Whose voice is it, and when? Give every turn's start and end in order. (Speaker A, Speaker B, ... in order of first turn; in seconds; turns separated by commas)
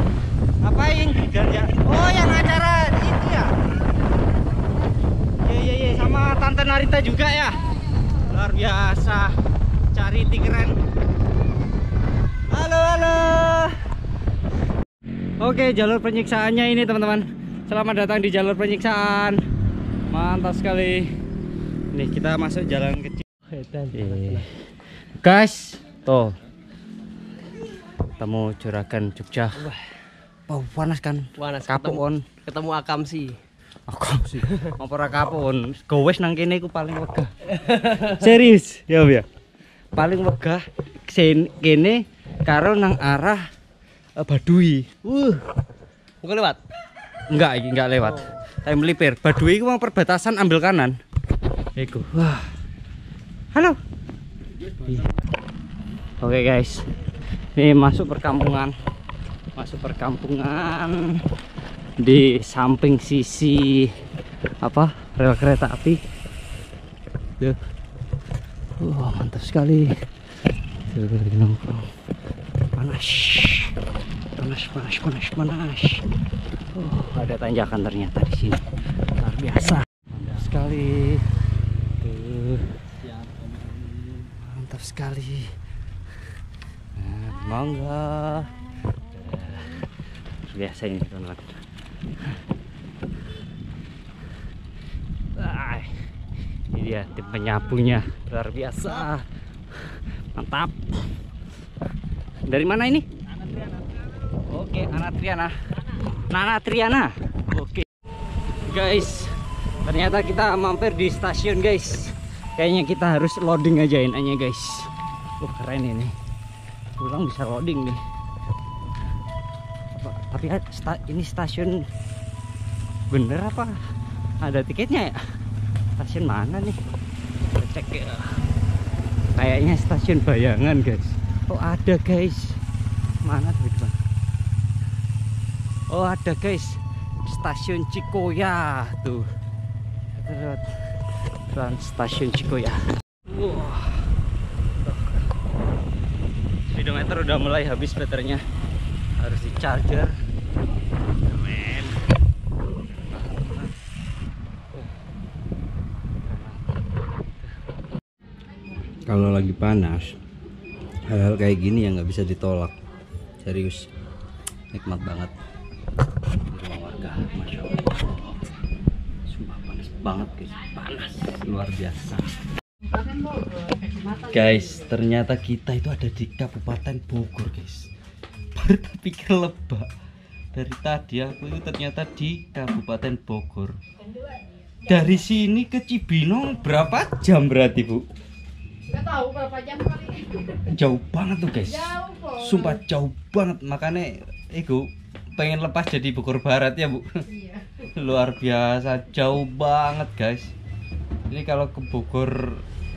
Speaker A: 0.6-3.5, Speaker A: 5.4-7.6, Speaker A: 8.3-9.3, Speaker A: 9.9-10.8, Speaker A: 12.5-13.8, Speaker A: 15.4-19.4, Speaker A: 20.1-21.1, Speaker A: 21.9-23.3, Speaker A: 23.9-24.5, Speaker A: 25.2-26.3, Speaker A: 28.2-29.8, Speaker A: 30.5-32.3, Speaker B: 31.4-33.4, Speaker A: 33.9-39.3, Speaker A: 39.9-43.5, Speaker A: 44.2-45.4, Speaker A: 46.2-46.6, Speaker A: 47.3-51.0, Speaker A: 51.8-52.5, Speaker A: 53.5-53.8, Speaker A: 56.2-56.8, Speaker A: 57.6-58.7, Speaker A: 59.6-61.2, Speaker A: 62.0-63.9, Speaker A: 64.6-66.0, Speaker A: 68.8-70.0, Speaker A: 70.9-71.9, Speaker A: 72.8-73.8, Speaker A: 74.4-76.0, Speaker A: 76.7-78.6, Speaker A: 79.2-81.3, Speaker A: 82.0-82.7, Speaker A: 84.1-85.5, Speaker A: 87.0-88.5, Speaker A: 89.1-89.9, Speaker A: 90.5-91.6, Speaker A: 95.4-96.0, Speaker A: 96.7-99.3, Speaker A: 99.8-100.8, Speaker A: 102.5-103.1, Speaker A: 104.5-105.5, Speaker A: 106.3-107.9, Speaker A: 108.6-109.3, Speaker A: 109.8-116.1, Speaker A: 117.0-118.0, Speaker A: 120.0-121.9, Speaker A: 123.1-123.8, Speaker A: 124.4-125.2, Speaker A: 126.0-126.8, Speaker A: 127.5-128.3, Speaker A: 129.4-132.6, Speaker A: 133.2-133.9, Speaker A: 135.9-139.3, Speaker A: 140.2-140.7, Speaker A: 141.5-144.1, Speaker A: 144.8-145.2, Speaker A: 146.7-148.4, Speaker A: 149.2-150.2, Speaker A: 151.3-152.0, Speaker A: 153.1-153.7, Speaker A: 156.0-156.8, Speaker A: 159.1-160.1, Speaker A: 161.1-162.8, Speaker A: 163.4-163.8, Speaker A: 164.7-165.3, Speaker A: 166.5-168.4, Speaker A: 169.3-172.4, Speaker C: 172.9-174.8, Speaker A: 174.3-177.9, Speaker A: 178.6-179.9, Speaker A: 180.5-183.8, Speaker A: 184.9-188.1, Speaker C: 188.9-190.5, Speaker A: 190.7-197.2, Speaker C: 191.7-192.8, Speaker C: 197.3-197.6, Speaker A: 197.9-200.5, Speaker A: 201.3-202.6